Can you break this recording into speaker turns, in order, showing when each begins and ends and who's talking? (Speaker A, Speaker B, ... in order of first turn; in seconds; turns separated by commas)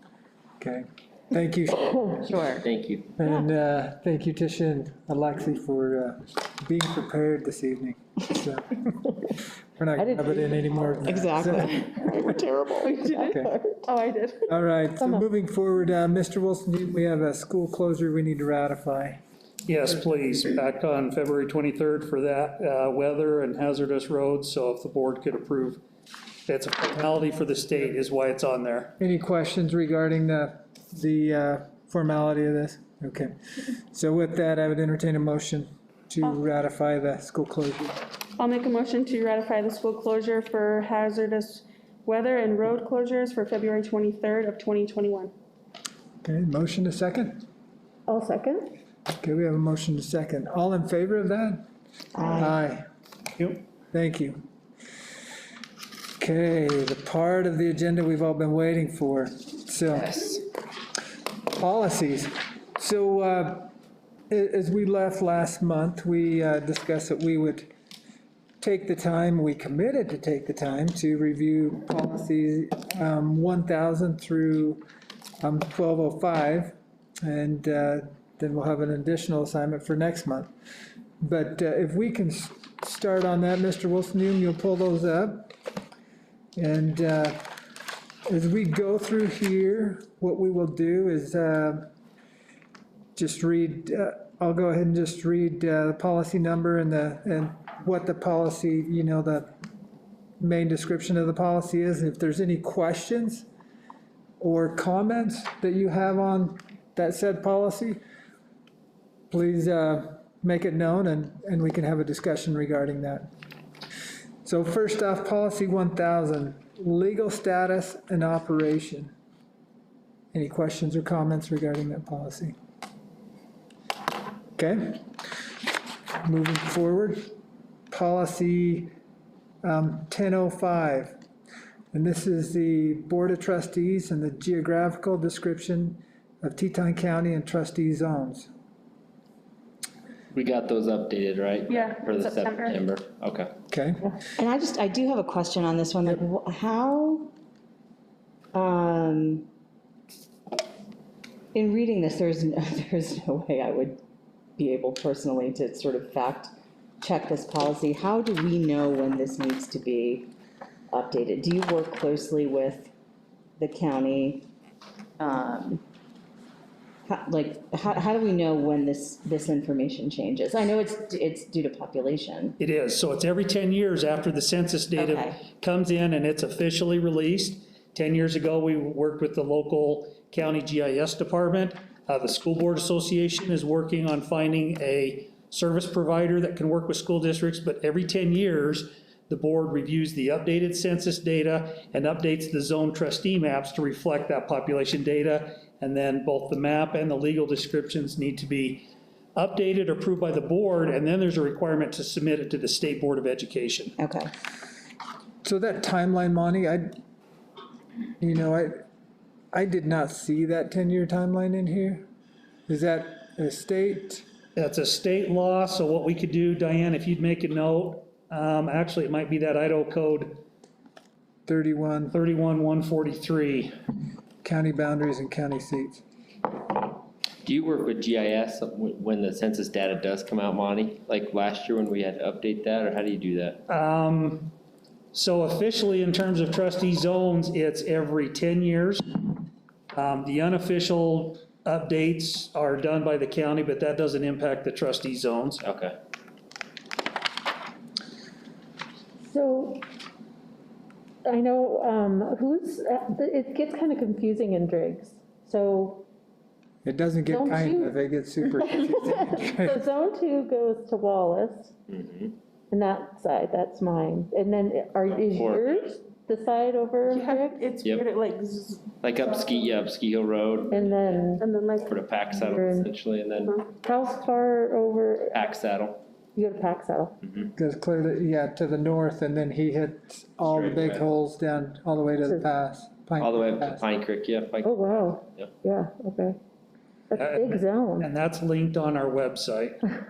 Speaker A: 0.6-2.5, Speaker B: 2.2-2.6, Speaker C: 2.6-3.1, Speaker A: 3.2-8.9, Speaker A: 9.8-12.2, Speaker D: 10.0-10.6, Speaker B: 11.0-13.2, Speaker E: 12.9-13.3, Speaker D: 13.1-13.8, Speaker A: 13.3-13.5, Speaker E: 13.9-14.4, Speaker A: 14.5-19.2, Speaker F: 19.6-25.8, Speaker F: 26.5-28.9, Speaker A: 29.0-38.0, Speaker E: 38.4-45.3, Speaker A: 46.2-47.4, Speaker D: 48.1-48.7, Speaker A: 49.2-51.6, Speaker B: 52.2-52.6, Speaker A: 52.3-52.8, Speaker A: 53.9-54.4, Speaker A: 56.2-60.3, Speaker A: 61.6-63.7, Speaker A: 64.3-67.7, Speaker A: 68.6-74.8, Speaker A: 75.4-80.5, Speaker A: 81.2-85.5, Speaker A: 86.6-87.6, Speaker A: 88.3-91.9, Speaker A: 93.2-99.5, Speaker A: 100.4-103.5, Speaker A: 104.4-108.0, Speaker A: 109.3-113.3, Speaker A: 114.5-119.1, Speaker A: 120.3-122.5, Speaker A: 124.6-125.1, Speaker A: 126.2-127.3, Speaker A: 127.9-128.9, Speaker A: 129.6-131.2, Speaker A: 131.9-138.5, Speaker C: 140.3-143.5, Speaker E: 141.7-142.8, Speaker A: 143.7-144.1, Speaker B: 144.4-147.3, Speaker B: 148.5-149.5, Speaker B: 151.5-154.0, Speaker B: 154.6-160.3, Speaker B: 160.9-162.9, Speaker B: 163.6-164.5, Speaker B: 165.2-165.8, Speaker B: 167.1-172.6, Speaker F: 172.6-203.9, Speaker B: 175.0-175.4, Speaker B: 204.0-204.3, Speaker A: 205.4-207.0, Speaker A: 208.2-208.8, Speaker A: 209.5-212.1, Speaker A: 212.7-214.2, Speaker F: 214.6-220.4, Speaker A: 221.5-222.2, Speaker F: 222.1-223.8, Speaker A: 224.4-226.0, Speaker C: 227.4-233.6, Speaker F: 233.7-234.5, Speaker F: 235.1-239.4, Speaker F: 239.9-245.6, Speaker C: 245.6-246.0, Speaker D: 249.2-249.9, Speaker D: 251.2-256.1, Speaker A: 256.8-259.8, Speaker D: 257.3-258.0, Speaker D: 258.7-261.7, Speaker C: 261.9-262.3, Speaker D: 262.7-267.7, Speaker C: 265.1-266.0, Speaker E: 267.1-269.7, Speaker C: 269.0-271.1, Speaker D: 270.7-271.5, Speaker E: 271.4-272.0, Speaker C: 271.8-273.5, Speaker D: 272.4-272.9, Speaker E: 273.4-273.7, Speaker D: 273.8-275.4, Speaker C: 275.3-276.0, Speaker D: 276.4-277.2, Speaker A: 277.6-283.8, Speaker C: 280.5-281.1, Speaker C: 283.2-285.5, Speaker D: 284.6-286.4, Speaker D: 287.1-288.1, Speaker F: 287.1-289.8